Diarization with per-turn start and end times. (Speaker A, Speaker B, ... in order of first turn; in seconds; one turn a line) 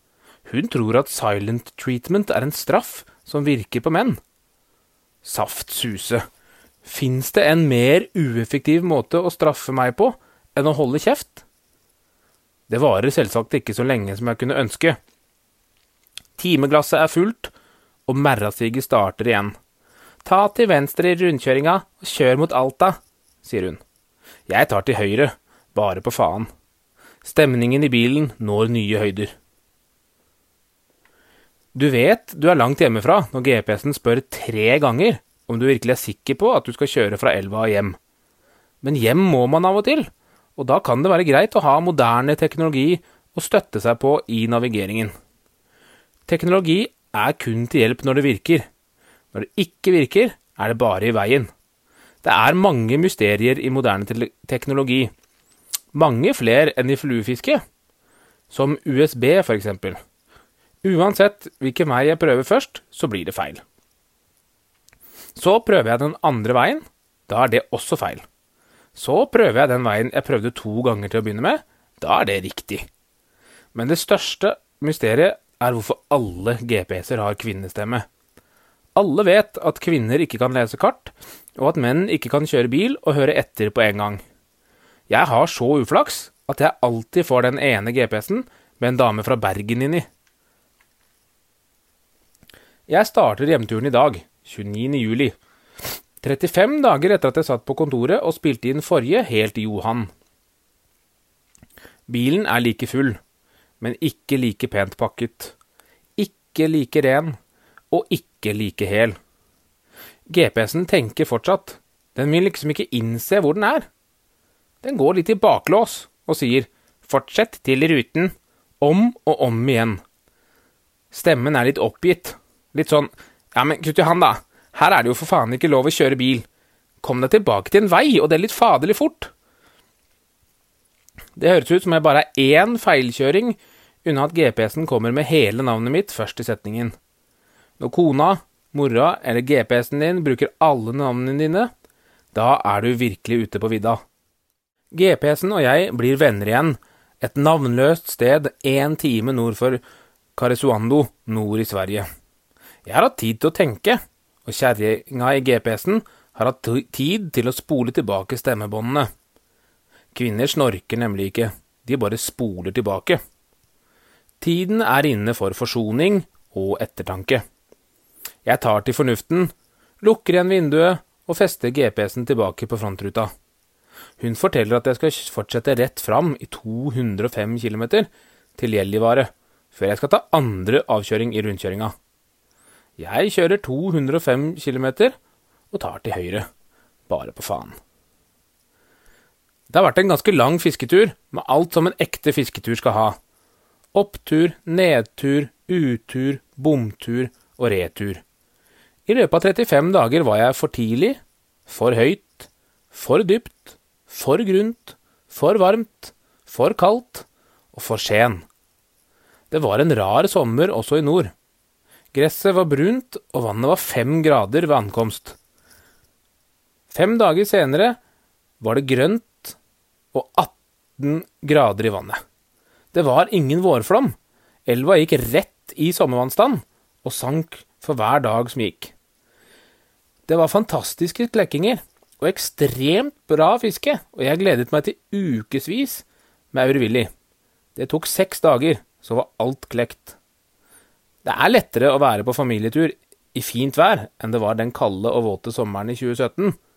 Speaker A: 0.5-4.2
Speaker A: 5.2-6.2
Speaker A: 6.8-11.4
Speaker A: 12.7-15.0
Speaker A: 16.4-17.5
Speaker A: 18.1-19.6
Speaker A: 20.2-23.8
Speaker A: 24.5-26.5
Speaker A: 27.2-29.3
Speaker A: 31.7-38.0
Speaker A: 38.8-45.1
Speaker A: 46.3-48.7
Speaker A: 49.3-51.5
Speaker A: 52.2-55.1
Speaker A: 55.9-57.6
Speaker A: 58.5-60.0
Speaker A: 60.8-63.6
Speaker A: 65.3-68.2
Speaker A: 69.0-72.9
Speaker A: 73.8-78.1
Speaker A: 79.0-84.2
Speaker A: 85.1-90.1
Speaker A: 92.9-95.4
Speaker A: 96.2-100.1
Speaker A: 102.1-103.2
Speaker A: 103.8-105.5
Speaker A: 106.2-107.4
Speaker A: 107.9-109.2
Speaker A: 110.3-113.9
Speaker A: 114.8-120.0
Speaker A: 121.1-126.5
Speaker A: 127.0-129.3
Speaker A: 131.4-136.9
Speaker A: 137.8-141.7
Speaker A: 142.3-144.0
Speaker A: 144.9-149.8
Speaker A: 150.4-152.1
Speaker A: 152.8-159.1
Speaker A: 160.1-163.2
Speaker A: 164.4-167.4
Speaker A: 168.4-173.3
Speaker A: 174.2-181.9
Speaker A: 183.0-185.2
Speaker A: 185.7-186.5
Speaker A: 187.1-187.8
Speaker A: 189.7-193.2
Speaker A: 193.9-198.2
Speaker A: 199.1-208.4
Speaker A: 209.5-211.3
Speaker A: 212.1-215.4
Speaker A: 216.9-218.0
Speaker A: 218.6-219.6
Speaker A: 220.1-222.2
Speaker A: 222.9-224.2
Speaker A: 224.7-228.9
Speaker A: 230.3-237.1
Speaker A: 237.8-240.2
Speaker A: 241.2-246.6